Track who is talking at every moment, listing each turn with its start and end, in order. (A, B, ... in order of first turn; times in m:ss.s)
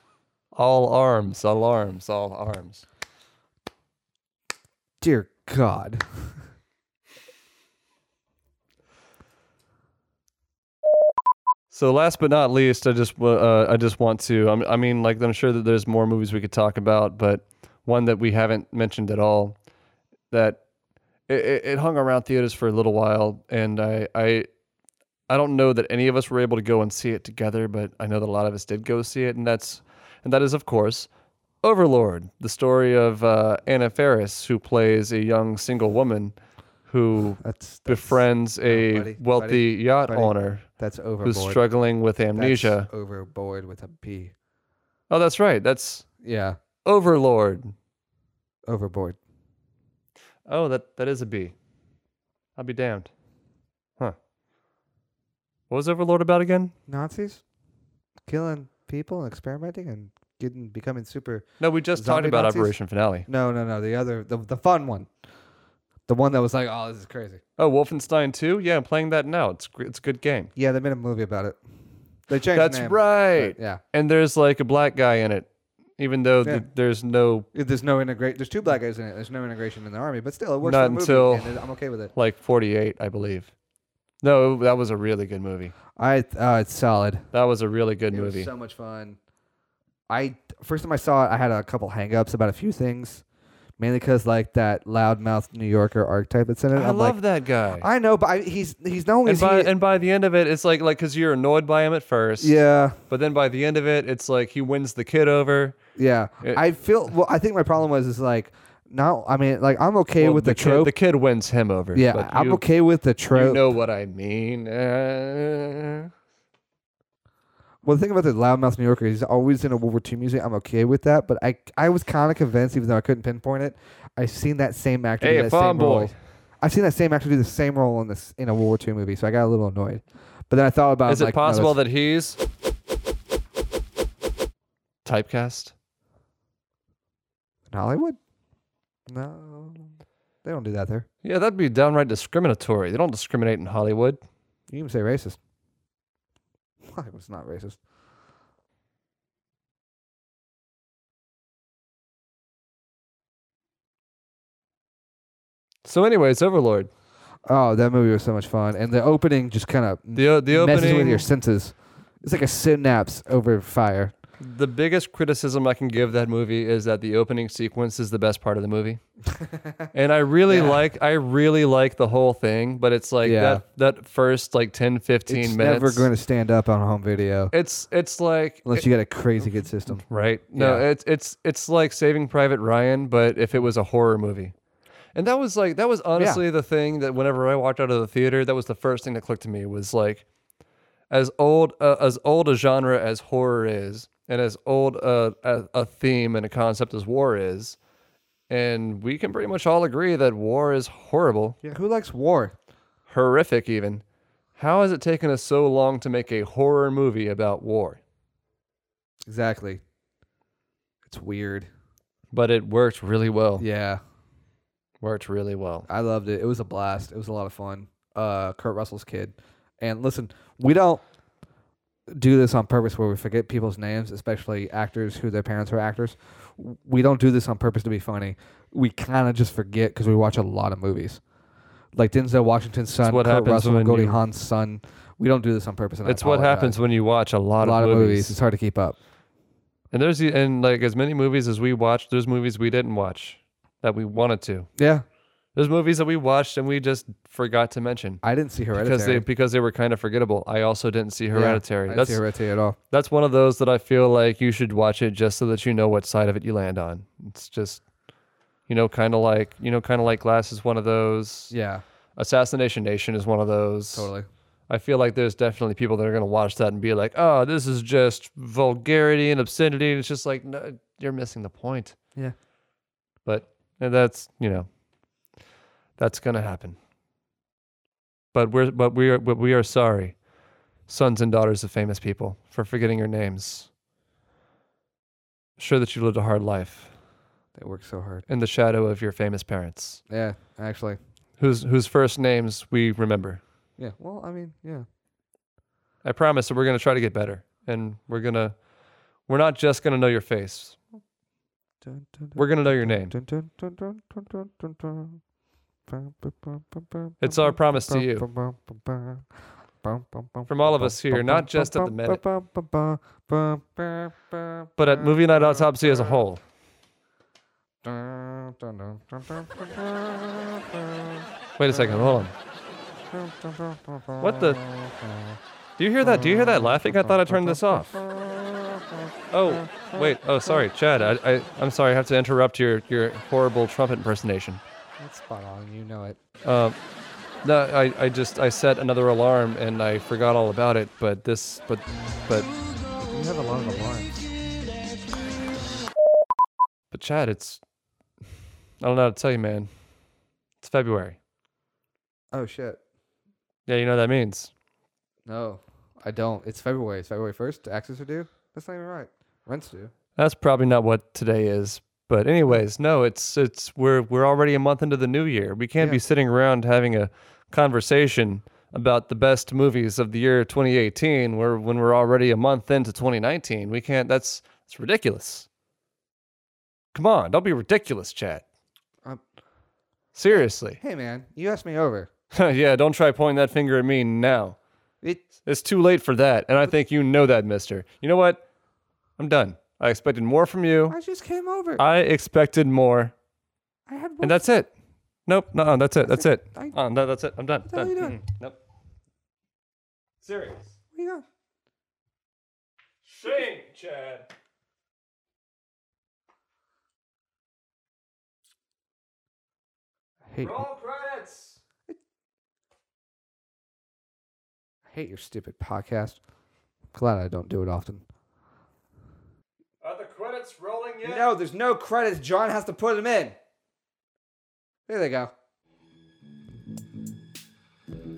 0:00.5-0:02.8 A
0:05.0-0:06.3 B
0:11.7-0:19.6 A
0:20.3-0:20.6 A
0:21.3-0:24.5 A
0:25.3-0:31.1 A
0:31.6-0:36.4 A
0:36.9-0:40.6 A
0:37.4-0:41.6 B
0:41.2-0:42.9 A
0:42.4-0:44.3 B
0:45.1-0:46.0 A
0:46.2-0:46.6 B
0:46.8-0:47.7 A
0:48.7-0:49.2 B
0:50.5-0:51.5 A
0:52.6-0:53.1 A
0:55.7-0:56.7 A
0:56.9-0:57.4 B
0:58.3-1:02.7 B
1:01.6-1:03.2 A
1:03.3-1:05.1 B
1:06.1-1:07.4 B
1:07.6-1:10.5 A
1:10.6-1:11.6 B
1:12.3-1:13.8 B
1:12.5-1:17.5 A
1:17.5-1:22.1 B
1:20.6-1:21.5 A
1:22.1-1:23.5 A
1:24.2-1:25.7 A
1:26.0-1:27.2 B
1:27.3-1:28.5 A
1:28.1-1:29.2 B
1:30.1-1:33.2 B
1:33.8-1:37.2 B
1:36.7-1:37.9 A
1:37.8-1:39.7 B
1:39.2-1:42.6 A
1:42.4-1:43.0 B
1:43.1-1:45.7 A
1:46.0-1:50.9 B
1:50.2-1:52.6 A
1:51.9-1:53.7 B
1:53.3-1:56.1 A
1:57.8-2:11.8 B
2:05.2-2:06.1 A
2:11.1-2:12.4 A
2:15.0-2:15.7 A
2:17.7-2:18.2 B
2:19.1-2:19.9 B
2:20.4-2:21.1 B
2:21.2-2:24.2 A
2:24.7-2:25.4 B
2:26.8-2:27.8 B
2:35.8-2:36.9 A
2:37.4-2:44.1 B
2:40.2-2:41.3 A
2:44.4-2:49.0 A
2:49.4-2:49.7 B
2:49.9-2:56.1 A
2:50.5-2:50.8 B
2:53.2-2:53.6 B
2:55.3-2:57.5 B
2:57.5-2:58.8 A
2:58.6-3:00.0 B
2:59.9-3:04.5 A
3:00.6-3:00.8 B
3:05.2-3:10.2 A
3:11.1-3:17.8 A
3:18.5-3:21.6 A
3:21.6-3:22.5 B
3:23.1-3:24.0 A
3:24.6-3:28.0 A
3:29.2-3:29.8 B
3:31.0-3:31.7 B
3:32.3-3:33.6 A
3:33.6-3:34.0 B
3:35.0-3:35.9 A
3:35.9-3:41.0 B
3:42.1-3:51.2 B
3:51.9-3:56.8 B
3:53.0-3:54.2 A
3:56.0-3:58.4 A
3:57.6-3:59.0 B
3:59.9-4:04.7 A
4:04.8-4:05.0 B
4:05.5-4:08.2 A
4:08.2-4:09.2 B
4:08.7-4:12.2 A
4:11.3-4:12.8 B
4:12.9-4:17.8 A
4:18.7-4:21.5 A
4:21.5-4:21.8 B
4:22.2-4:24.1 A
4:23.9-4:24.2 B
4:24.7-4:32.0 A
4:33.2-4:34.7 A
4:36.0-4:36.8 A
4:38.3-4:40.2 A
4:40.9-4:43.7 A
4:45.6-4:46.9 A
4:47.6-4:48.2 B
4:48.3-4:50.0 A
4:50.1-4:51.0 B
4:51.4-4:53.4 A
4:53.8-4:54.8 B
4:56.0-4:58.6 A
4:59.3-5:00.8 A
5:01.8-5:05.2 B
5:02.4-5:03.1 A
5:05.9-5:09.2 B
5:07.2-5:08.3 A
5:09.8-5:16.2 B
5:10.5-5:12.2 A
5:14.8-5:16.4 A
5:17.8-5:22.3 B
5:21.6-5:22.3 A
5:23.1-5:25.4 B
5:24.2-5:24.6 A
5:25.8-5:28.0 A
5:26.0-5:30.6 B
5:29.3-5:34.6 A
5:35.0-5:36.2 B
5:36.4-5:36.8 A
5:37.4-5:42.5 A
5:43.0-5:44.2 B
5:46.9-5:47.6 A
5:48.8-5:49.7 A
5:50.6-5:51.2 A
5:52.3-5:52.8 B
5:53.7-5:54.5 A
5:55.2-5:59.9 B
6:00.2-6:15.5 A
6:16.9-6:18.4 A
6:20.1-6:20.8 A
6:20.3-6:22.1 B
6:22.3-6:24.6 A
6:25.4-6:28.4 A
6:29.2-6:31.0 A
6:30.9-6:31.8 B
6:31.8-6:33.1 A
6:33.9-6:34.5 B
6:34.2-6:34.7 A
6:35.3-6:38.6 A
6:36.0-6:36.8 B
6:37.7-6:38.2 B
6:40.2-6:40.7 A
6:40.9-6:41.2 B
6:43.0-6:44.3 A
6:50.3-6:50.6 B
6:50.4-6:51.6 A
6:54.9-6:56.2 B
6:56.9-6:58.0 B
6:59.8-7:01.3 A
7:01.0-7:03.3 B
7:04.9-7:05.3 B